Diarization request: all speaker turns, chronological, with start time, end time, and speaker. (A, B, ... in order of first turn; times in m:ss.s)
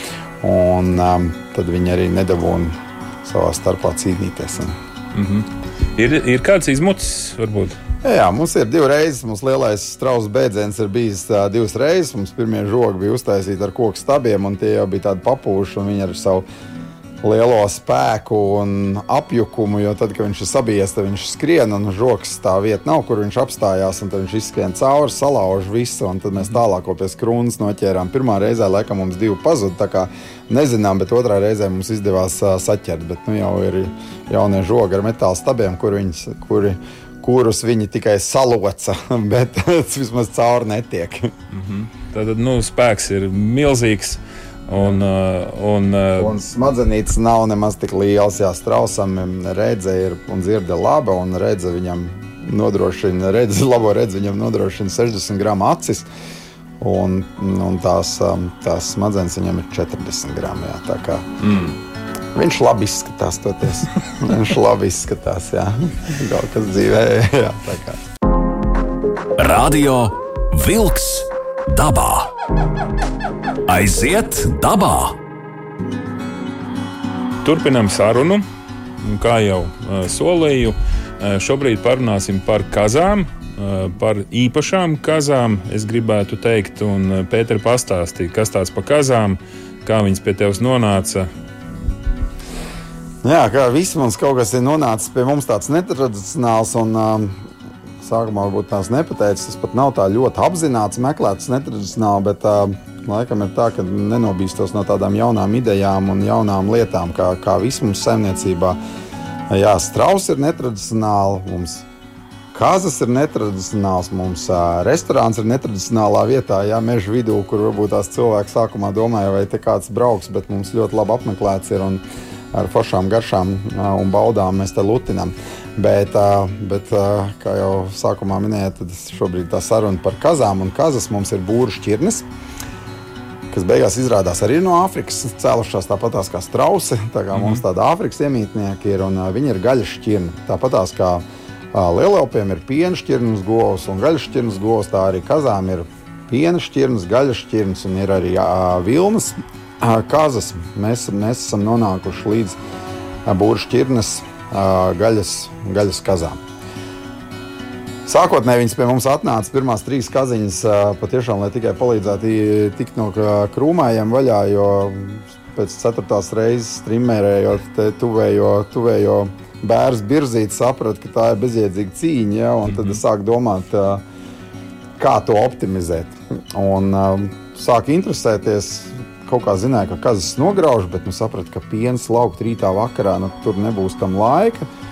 0:00.4-0:04.8 A
0:05.1-0:07.8 B
0:08.0-0:16.4 A
0:17.2-0:41.3 A
0:41.5-0:46.4 B
0:46.2-0:56.1 A
0:56.8-1:01.6 A
1:02.3-1:08.0 A
1:09.4-1:12.3 C
1:13.7-1:15.2 C
1:17.4-1:18.4 B
1:19.0-1:31.3 B
1:33.2-1:37.4 A
1:38.0-1:48.8 A
1:49.5-1:51.8 A
1:52.5-2:02.0 A
2:02.5-2:12.2 A
2:13.5-2:32.6 A
2:17.3-2:17.6 B
2:33.3-2:36.4 A
2:38.1-2:54.0 A
2:52.7-2:53.0 B
2:55.0-3:04.7 A